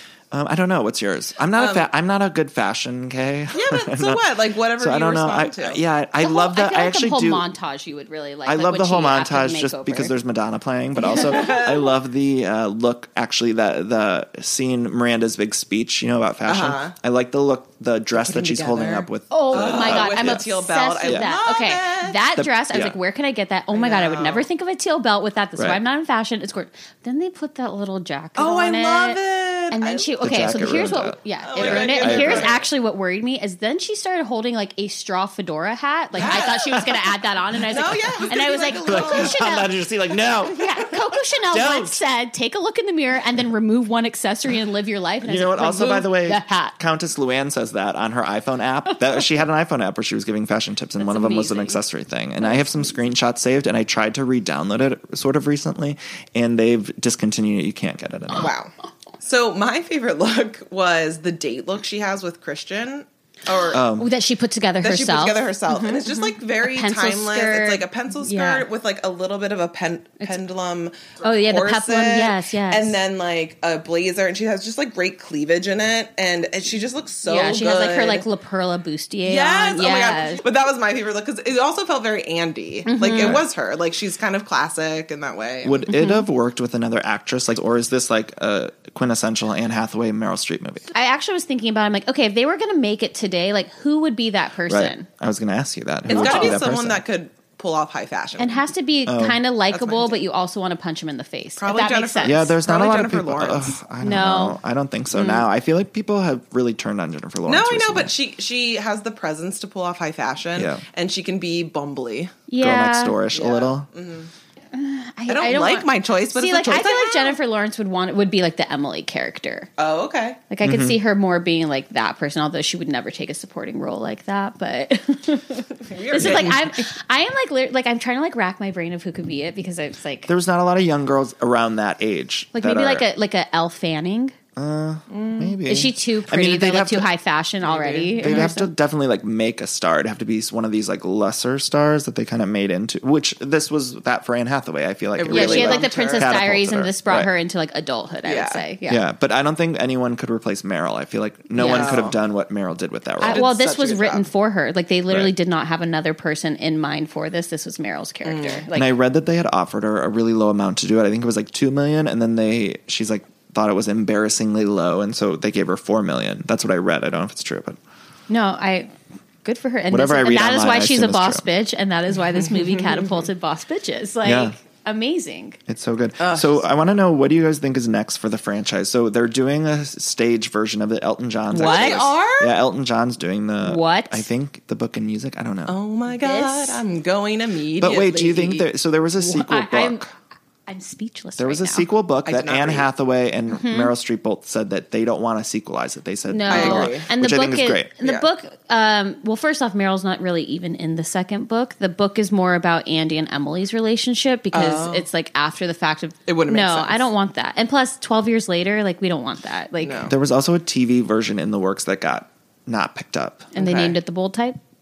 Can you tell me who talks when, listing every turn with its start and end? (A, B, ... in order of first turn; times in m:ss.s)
0:00.3-0:07.5 A
0:01.6-0:01.9 B
0:03.5-0:05.8 B
0:06.2-0:10.2 C
0:08.5-0:20.4 A
0:11.0-0:11.8 B
0:11.1-0:11.5 C
0:16.5-0:17.0 B
0:18.1-0:22.2 B
0:19.3-0:29.2 C
0:21.0-0:21.3 A
0:22.4-0:23.0 A
0:23.7-0:24.5 B
0:28.4-0:30.2 B
0:29.7-0:39.7 C
0:30.2-0:32.6 A
0:31.4-0:32.6 B
0:36.2-0:36.9 B
0:36.3-0:36.5 A
0:37.7-0:39.5 B
0:38.8-0:42.0 A
0:40.4-0:46.8 C
0:45.2-0:58.5 A
0:51.0-0:51.8 C
0:58.3-1:03.8 B
1:03.7-1:04.1 A
1:04.0-1:08.7 C
1:04.8-1:18.3 B
1:11.2-1:13.0 C
1:17.2-1:20.4 C
1:19.2-1:25.8 B
1:22.9-1:23.4 C
1:23.2-1:23.5 A
1:25.6-1:30.9 A
1:25.9-1:26.3 C
1:30.9-1:35.1 C
1:34.7-1:37.0 A
1:36.1-1:38.6 B
1:36.1-1:36.6 C
1:38.4-1:42.5 C
1:39.1-1:39.4 A
1:39.7-1:40.2 B
1:41.6-1:43.8 B
1:42.2-1:48.1 A
1:44.0-1:44.6 C
1:45.1-1:45.4 C
1:47.5-1:52.4 B
1:50.6-1:50.8 A
1:52.5-1:53.2 C
1:52.6-1:53.9 A
1:53.3-1:54.3 B
1:54.7-1:59.7 C
1:55.3-1:57.4 B
1:59.8-2:00.4 B
2:00.5-2:10.3 C
2:00.6-2:01.0 A
2:05.8-2:06.9 B
2:06.2-2:06.6 A
2:10.3-2:13.1 A
2:12.5-2:14.4 C
2:14.6-2:17.1 A
2:15.1-2:15.6 B
2:15.7-2:18.7 C
2:17.6-2:18.5 B
2:18.2-2:27.3 A
2:25.2-2:26.3 B
2:25.3-2:29.0 C
2:28.2-2:28.6 B
2:28.9-2:33.4 A
2:31.6-2:32.0 C
2:31.6-2:32.2 B
2:33.2-2:38.9 C
2:33.2-2:34.3 B
2:38.2-2:38.7 B
2:38.7-2:47.8 A
2:48.3-2:48.9 C
2:49.4-2:55.6 C
2:49.9-2:51.5 A
2:52.6-2:53.1 B
2:54.2-2:54.6 A
2:55.7-3:05.8 A
2:56.2-2:56.6 B
3:01.5-3:02.1 C
3:01.6-3:02.6 B
3:03.6-3:04.3 C
3:05.7-3:08.7 B
3:06.2-3:06.8 C
3:07.8-3:10.1 A
3:09.2-3:10.1 C
3:10.7-3:11.9 C
3:11.4-3:17.9 A
3:12.2-3:12.9 B
3:13.5-3:13.9 C
3:16.3-3:30.1 C
3:16.5-3:17.1 B
3:24.5-3:25.1 B
3:26.3-3:27.1 B
3:29.8-3:30.2 B
3:30.1-3:33.5 A
3:33.6-3:34.0 B
3:33.6-3:34.6 C